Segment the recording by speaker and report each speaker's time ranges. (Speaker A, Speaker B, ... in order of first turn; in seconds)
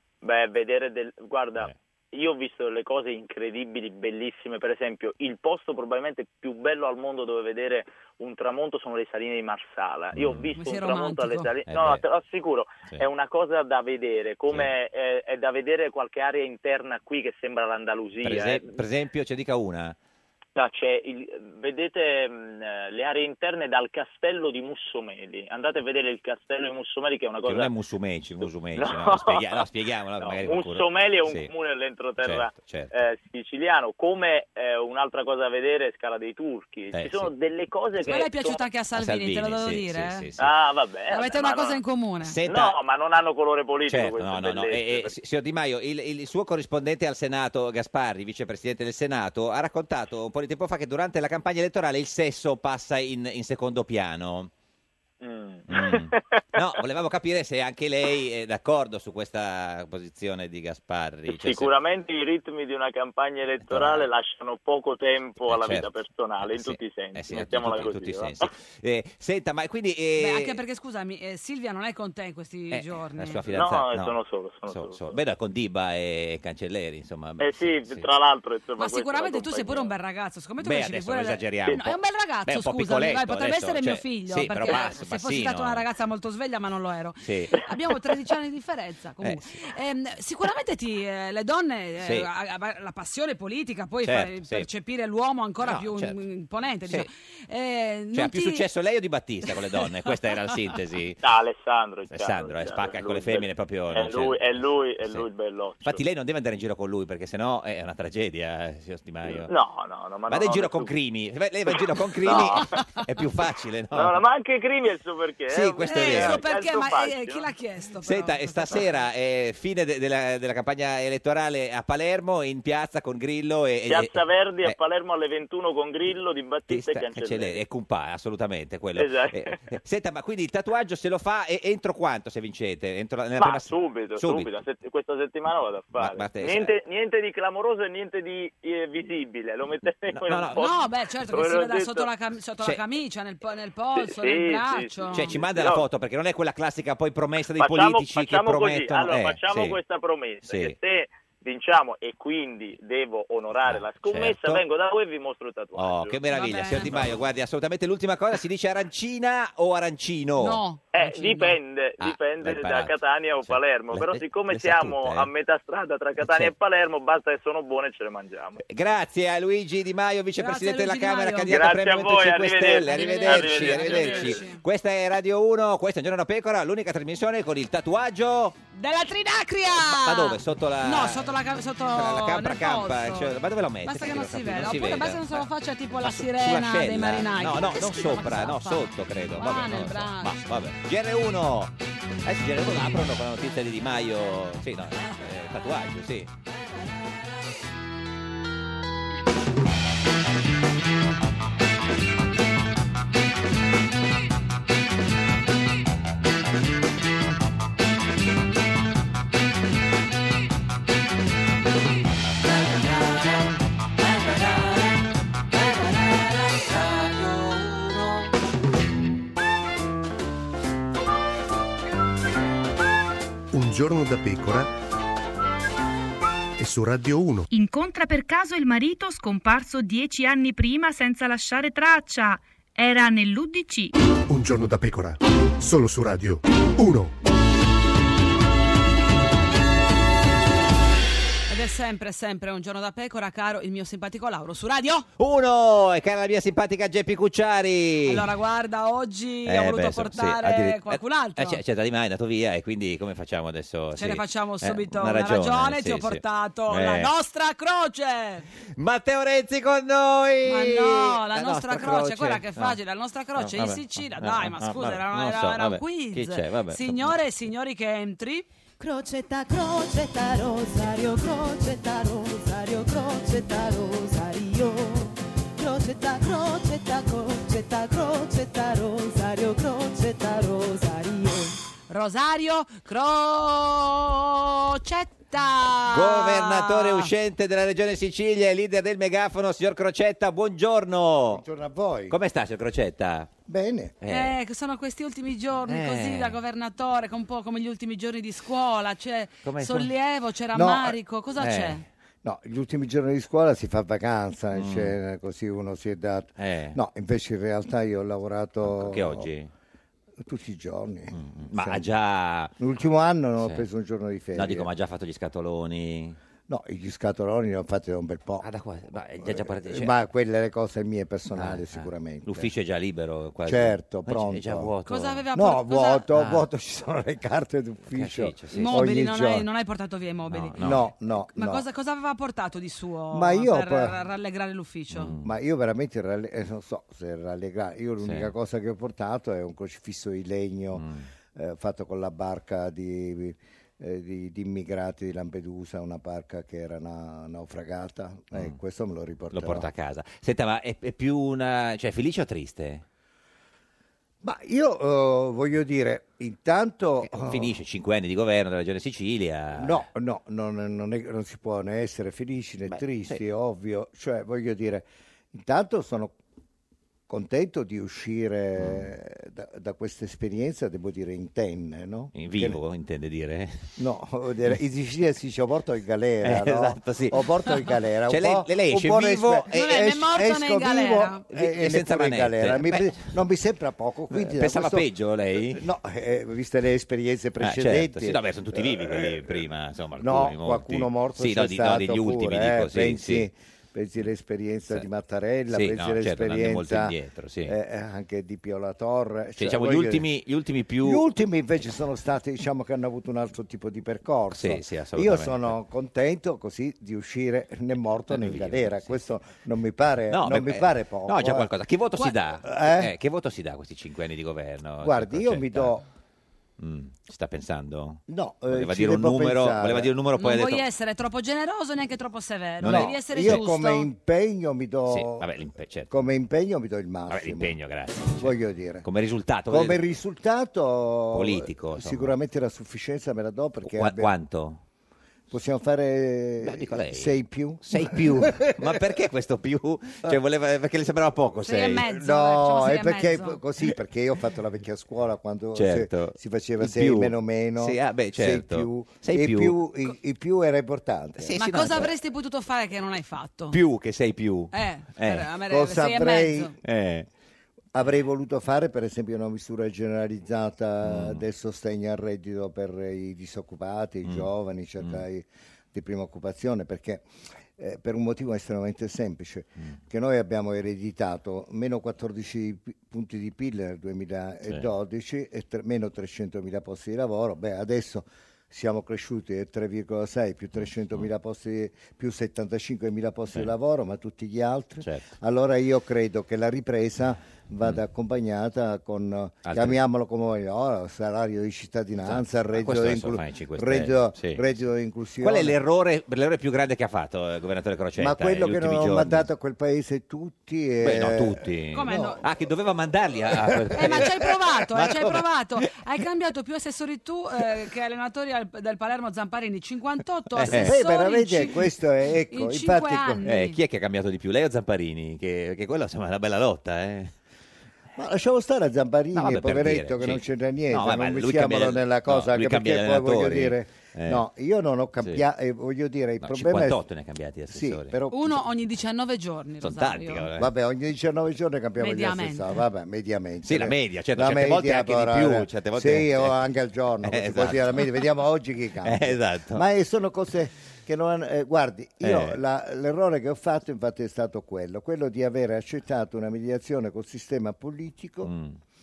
Speaker A: 0.2-18.8, 20.6-27.7, 28.4-29.7, 30.2-38.6, 40.4-41.8, 42.5-45.1, 55.2-56.7, 61.3-68.5, 73.5-75.2, 77.4-79.9, 101.2-106.0, 109.3-110.9, 111.7-112.8, 113.9-117.5, 123.9-127.6, 128.9-129.6, 133.4-142.1, 143.9-145.8, 147.6-156.2, 160.9-168.6, 171.5-174.4
Speaker B: 10.1-10.5, 11.7-12.0, 18.2-19.9, 27.4-31.5, 32.2-32.9, 36.9-37.3, 38.9-40.5, 42.2-42.8, 43.9-54.5, 55.7-61.7, 63.7-64.1, 65.4-65.9, 66.4-70.6, 72.7-74.2, 74.7-78.0, 80.6-85.8, 87.2-87.5, 89.2-89.6, 92.0-92.3, 94.0-94.7, 95.6-96.2, 98.1-101.2, 102.1-105.2, 105.8-109.5, 110.3-114.2, 115.5-116.4, 118.0-124.8, 126.7-134.5, 135.9-136.7, 140.1-140.6, 145.1-149.8, 150.4-150.7, 153.7-154.6, 155.8-160.6, 162.0-165.3, 166.2-166.5, 168.6-178.6, 179.8-181.3, 181.8-185.5, 186.0-191.7, 192.2-196.3, 212.5-213.0, 217.0-217.8, 245.2-248.3, 249.4-257.1, 258.8-262.8, 263.4-267.1, 285.9-291.4, 292.1-293.3, 294.0-294.3, 295.7-296.4, 299.4-299.9, 301.4-301.8, 304.5-304.9, 306.4-306.8, 308.6-309.5, 311.1-312.5, 313.4-313.6, 314.3-316.2, 318.4-319.9, 321.3-325.3, 326.1-326.5, 327.9-328.9, 330.3-330.9, 334.9-335.3, 338.0-338.3, 340.7-341.0, 349.3-352.8, 357.0-359.8, 362.7-363.2, 368.6-368.9, 372.1-373.7, 376.2-379.8, 381.3-383.1, 384.1-385.6, 387.4-393.3, 395.5-397.5, 399.4-401.1, 404.3-405.6, 408.1-409.0, 410.1-415.8, 416.6-420.6, 422.6-423.5, 424.9-426.0, 427.1-429.8, 431.1-432.1, 433.6-434.6, 436.4-441.9, 445.6-449.6, 451.2-451.9, 453.5-455.3, 456.6-457.1, 460.8-461.2, 464.0-465.0, 484.8-485.1, 489.4-489.8, 492.0-494.4, 495.2-499.3, 500.8-504.2, 504.7-505.3, 510.4-510.8, 513.2-517.1, 519.1-524.2, 526.2-528.0, 529.6-530.5, 533.4-536.4, 537.0-538.0, 538.8-539.6, 542.0-542.4, 548.2-548.6
Speaker C: 10.6-11.5, 38.0-40.3, 41.1-42.4, 70.2-73.4, 78.8-98.6, 112.3-112.6, 115.8-118.9, 140.5-145.3, 156.3-157.1, 160.4-161.6, 170.4-171.7, 172.8-174.6, 178.7-190.4, 241.5-245.1, 248.0-251.6, 253.9-258.4, 260.4-268.4, 281.9-287.1, 294.1-301.8, 324.9-326.1, 328.5-335.1, 379.5-381.2, 420.2-423.9, 441.4-443.4, 451.3-453.6, 454.5-456.5, 501.7-502.2, 503.7-511.7, 512.3-513.6, 528.1-530.3, 531.8-532.5
Speaker D: 223.5-224.7, 226.6-227.5, 234.3-237.1
Speaker E: 227.5-233.9
Speaker F: 268.8-281.5
Speaker G: 291.3-292.2, 293.4-294.0, 300.5-300.9, 302.2-309.3, 310.2-311.9, 312.6-314.7, 316.5-318.5, 319.2-322.5, 323.4-324.7, 325.3-329.5, 330.6-331.6, 333.1-334.0, 335.2-349.7, 354.2-357.6, 359.6-366.1, 367.1-372.6, 373.8-384.9, 385.4-389.4, 390.0-400.1, 400.8-411.5, 412.4-412.9, 414.8-415.8, 418.1-419.9, 422.6-425.3, 425.9-427.6, 428.1-428.9, 429.5-434.1, 435.3-438.8, 441.8-451.4, 455.5-456.6, 457.7-467.0, 467.6-495.6, 498.0-502.3, 503.3-504.1, 510.5-513.3, 518.0-526.9, 527.5-528.4, 530.4-548.3